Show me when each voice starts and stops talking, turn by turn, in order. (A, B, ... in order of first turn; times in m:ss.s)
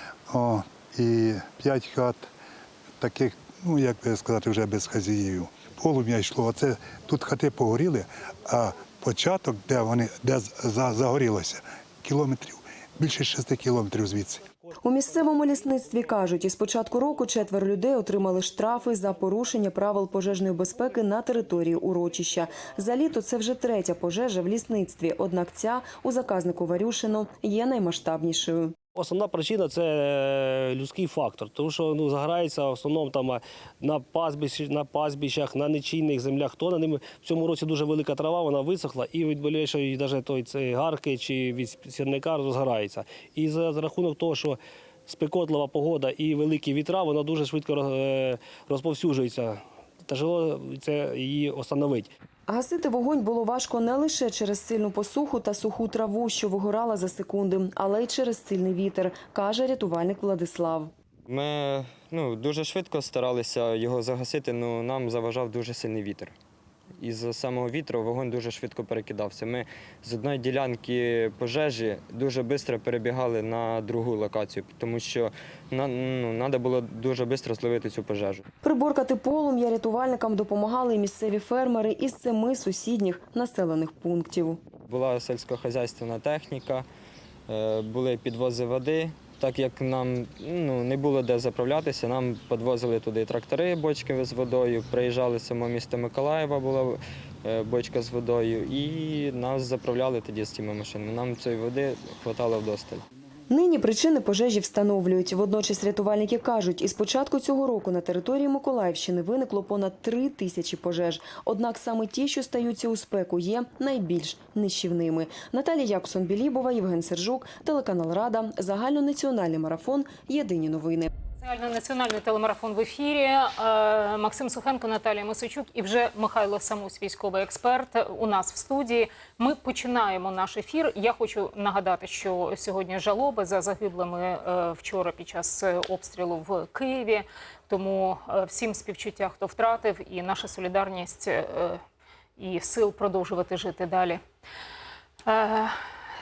0:00.3-0:02.3 A
0:03.0-0:14.5 A
0:14.8-0:28.8 B
0:29.0-0:52.1 C
0:52.5-1:00.9 B
1:01.3-1:06.4 D
1:07.0-1:18.4 D
1:18.6-1:24.6 B
1:24.9-1:26.9 D
1:27.5-1:43.0 D
1:43.5-2:01.1 B
2:01.4-2:21.8 E
2:22.4-2:24.2 E
2:25.2-2:25.8 E